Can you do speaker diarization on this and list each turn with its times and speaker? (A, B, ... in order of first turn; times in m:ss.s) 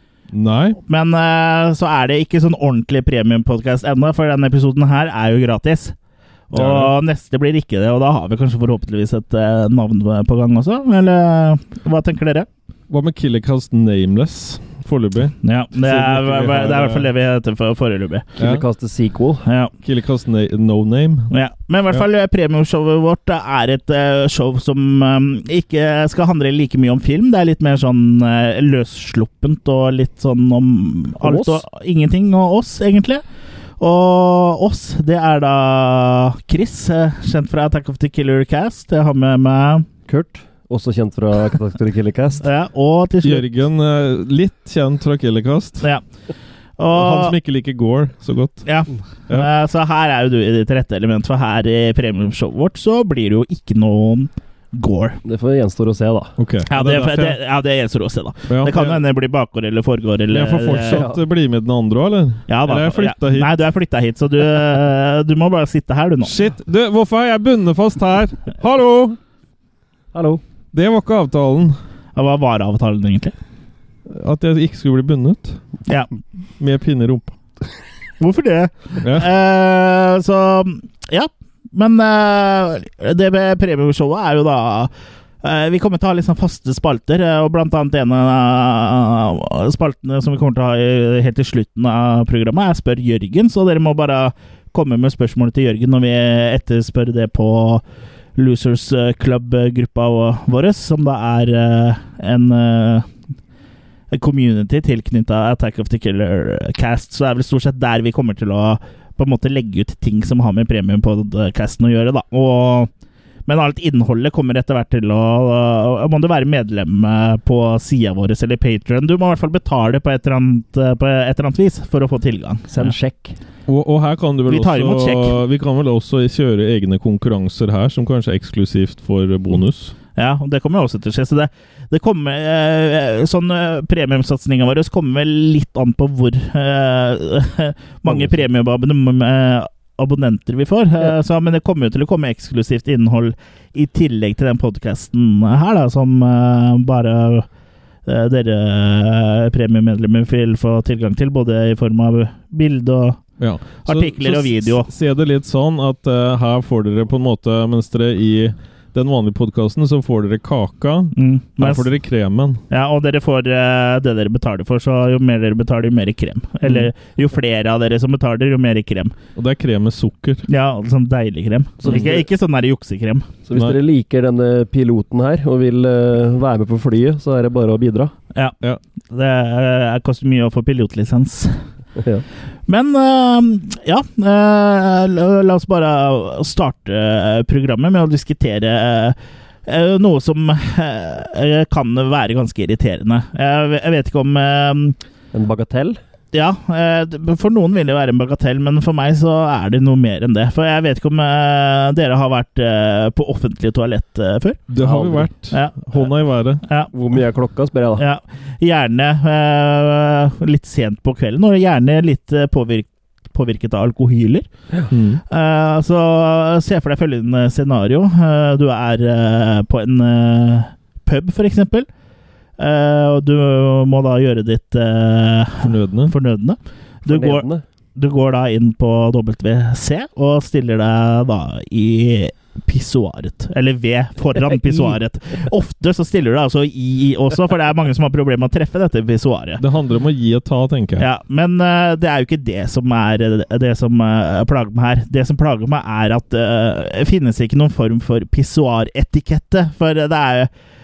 0:00.3-0:00.8 A
0:00.9-0:05.9 B
0:06.5-0:12.5 B
0:06.5-0:06.9 A
0:12.9-0:17.1 A
0:15.4-0:18.3 B
0:18.4-0:18.6 A
0:18.4-0:19.4 C
0:19.4-0:19.7 B
0:19.8-0:21.3 A
0:21.3-0:33.2 B
0:31.2-0:31.6 C
0:33.8-0:39.9 B
0:40.1-0:42.4 C
0:42.4-0:43.5 B
0:43.2-0:45.9 A
0:46.8-0:47.4 B
0:46.9-0:48.7 A
0:48.6-0:55.2 B
0:55.2-0:56.3 C
0:56.4-0:57.4 A
0:56.7-1:01.0 B
0:58.5-0:59.0 A
1:00.3-1:03.5 A
1:00.9-1:01.2 C
1:02.5-1:06.3 B
1:06.2-1:09.2 A
1:10.1-1:10.4 C
1:10.7-1:11.8 A
1:12.2-1:13.3 B
1:14.1-1:15.6 A
1:16.6-1:17.4 A
1:18.2-1:24.9 B
1:19.0-1:19.3 A
1:25.4-1:37.8 B
1:38.4-1:43.1 B
1:44.1-1:52.9 B
1:53.4-2:02.9 B
2:02.7-2:03.4 C
2:03.7-2:09.9 A
2:04.5-2:05.4 B
2:10.2-2:27.5 B
2:18.0-2:18.3 C
2:28.0-2:33.2 B
2:33.4-2:42.6 A
2:33.8-2:34.9 B
2:41.1-2:41.9 B
2:42.7-2:49.1 B
2:46.6-2:46.9 A
2:49.4-2:50.4 A
2:50.5-2:53.3 B
2:51.8-2:52.2 C
2:53.5-2:58.1 C
2:59.1-3:01.6 B
3:02.0-3:02.2 C
3:02.7-3:15.0 B
3:15.3-3:16.0 C
3:16.3-3:24.7 B
3:24.7-3:26.6 A
3:24.8-3:25.3 C
3:25.5-3:26.1 B
3:26.6-3:26.9 B
3:26.9-3:28.0 C
3:28.0-3:34.5 B
3:34.9-3:35.2 A
3:35.3-3:41.9 B
3:42.6-3:47.4 B
3:45.6-3:46.1 A
3:47.1-3:47.6 C
3:48.0-3:59.6 B
3:59.6-4:01.0 A
4:01.0-4:10.5 B